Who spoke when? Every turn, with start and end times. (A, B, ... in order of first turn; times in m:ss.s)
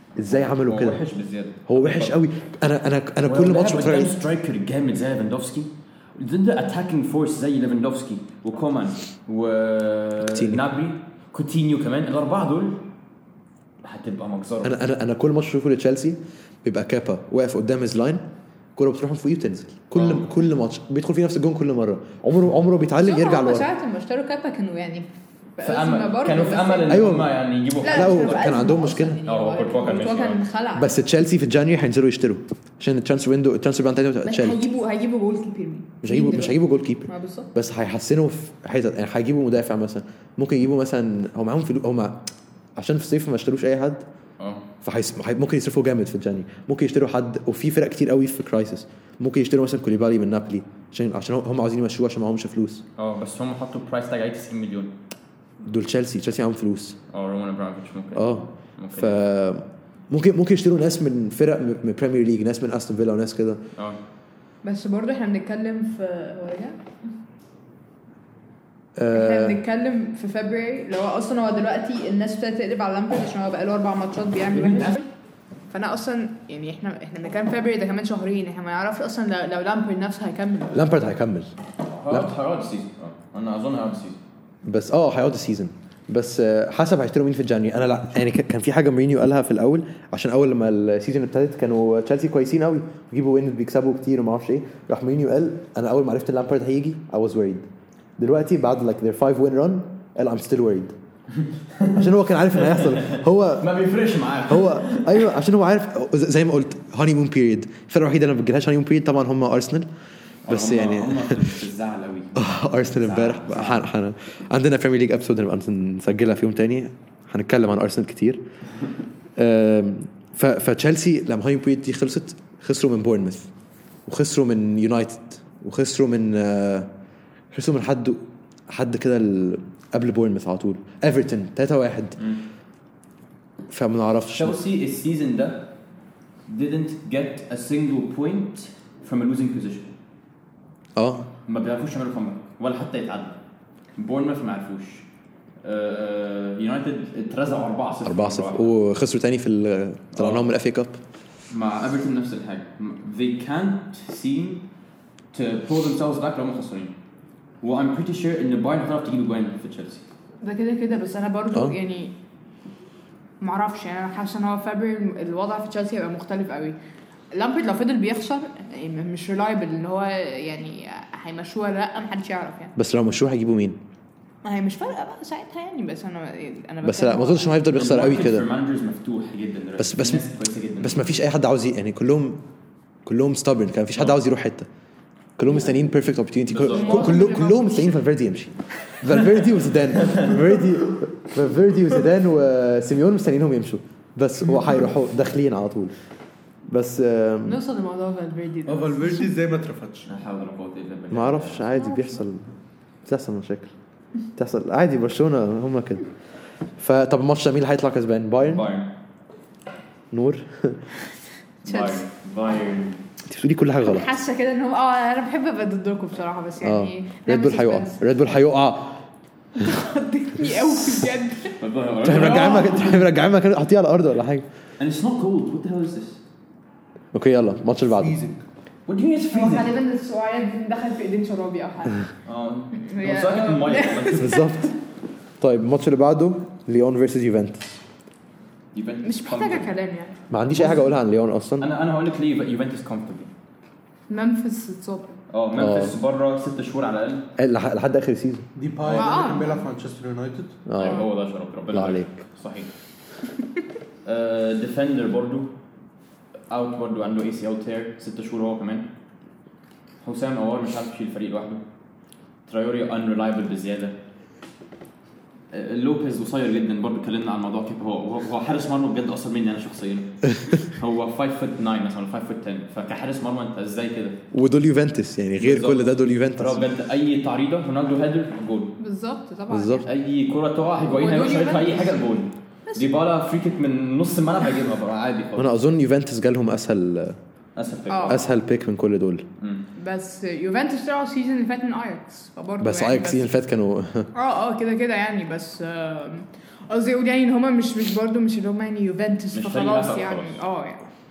0:00.2-0:01.0 A
0:00.3-0:02.2 B
0:01.7-0:04.2 A
0:03.2-0:12.8 B
0:10.2-0:10.6 A
0:13.8-0:14.8 B
0:14.6-0:18.2 A
0:18.8-0:23.7 A
0:19.9-0:20.3 B
0:23.0-0:27.0 C
0:25.6-0:28.6 B
0:26.9-0:29.2 A
0:27.8-0:30.9 C
0:29.2-0:30.4 B
0:30.8-0:34.6 A
0:34.2-0:37.5 C
0:36.0-0:42.2 A
0:42.8-0:44.0 A
0:44.4-0:44.6 B
0:44.8-0:52.8 A
0:53.0-0:54.9 B
0:55.6-0:57.0 A
0:57.1-0:59.2 B
0:58.1-1:03.6 A
1:04.6-1:06.8 C
1:09.0-1:09.6 A
1:09.1-1:15.0 C
1:14.6-1:14.9 B
1:15.7-1:20.8 C
1:20.7-1:21.5 A
1:21.9-1:24.2 B
1:24.6-1:37.7 A
1:38.2-1:40.9 A
1:41.7-1:45.3 B
1:41.9-1:43.7 A
1:44.4-1:49.9 A
1:50.4-1:53.9 B
1:50.5-1:51.6 A
1:52.3-1:58.4 A
1:59.4-2:03.5 A
2:04.0-2:06.9 A
2:07.5-2:12.2 A
2:13.7-2:14.6 A
2:14.3-2:15.7 B
2:16.5-2:19.9 B
2:21.0-2:21.3 A
2:21.5-2:23.3 B
2:24.0-2:25.0 B
2:25.6-2:28.7 B
2:28.0-2:31.0 A
2:30.1-2:30.5 B
2:31.5-2:34.7 B
2:35.3-2:36.9 B
2:37.6-2:40.0 B
2:40.4-2:42.1 C
2:43.4-2:46.8 C
2:47.3-2:52.7 C
2:52.8-2:53.8 A
2:54.4-2:57.6 C
2:56.8-2:58.5 A
2:57.7-3:01.0 B
2:59.8-3:00.2 A
3:00.8-3:02.4 A
3:03.0-3:04.7 A
3:05.4-3:15.9 A
3:06.5-3:07.2 B
3:06.7-3:08.0 C
3:16.7-3:17.6 A
3:17.4-3:19.3 C
3:18.6-3:20.1 D
3:20.1-3:21.7 B
3:21.1-3:23.7 A
3:21.8-3:22.2 C
3:24.4-3:26.1 A
3:26.8-3:28.7 A
3:28.4-3:28.9 B
3:30.1-3:30.8 A
3:31.6-3:33.0 B
3:31.6-3:32.0 C
3:33.3-3:34.1 A
3:33.8-3:38.0 C
3:36.6-3:39.0 A
3:39.6-3:41.6 C
3:41.6-3:43.0 B
3:42.0-3:44.5 A
3:42.1-3:42.7 C
3:44.8-3:46.2 B
3:47.1-3:48.2 A
3:47.9-3:48.4 D
3:48.8-3:49.7 B
3:49.3-3:52.0 C
3:52.2-3:54.4 B
3:52.7-3:54.6 C
3:54.1-3:54.7 A
3:55.4-3:57.8 A
3:58.7-3:59.7 B
3:59.0-4:00.7 C
4:00.3-4:01.7 A
4:01.6-4:03.3 B
4:04.1-4:05.2 C
4:05.3-4:07.2 B
4:05.5-4:06.0 A
4:07.4-4:08.4 A
4:08.5-4:10.6 D
4:08.8-4:09.2 B
4:08.9-4:09.6 C
4:10.7-4:11.0 A
4:10.8-4:12.7 B
4:11.7-4:12.1 A
4:14.0-4:15.5 B
4:16.5-4:18.9 B
4:20.0-4:21.6 B
4:22.5-4:23.9 B
4:25.5-4:34.2 B
4:34.3-4:36.6 A
4:35.4-4:38.8 B
4:38.8-4:39.9 C
4:39.5-4:39.9 A
4:39.8-4:45.5 B
4:40.8-4:42.0 C
4:45.4-4:47.2 A
4:47.6-4:48.3 B
4:47.9-4:48.2 C
4:48.1-4:49.2 A
4:49.4-4:49.6 B
4:49.8-4:53.3 C
4:52.6-4:54.1 A
4:54.1-5:00.8 C
4:59.3-5:00.4 B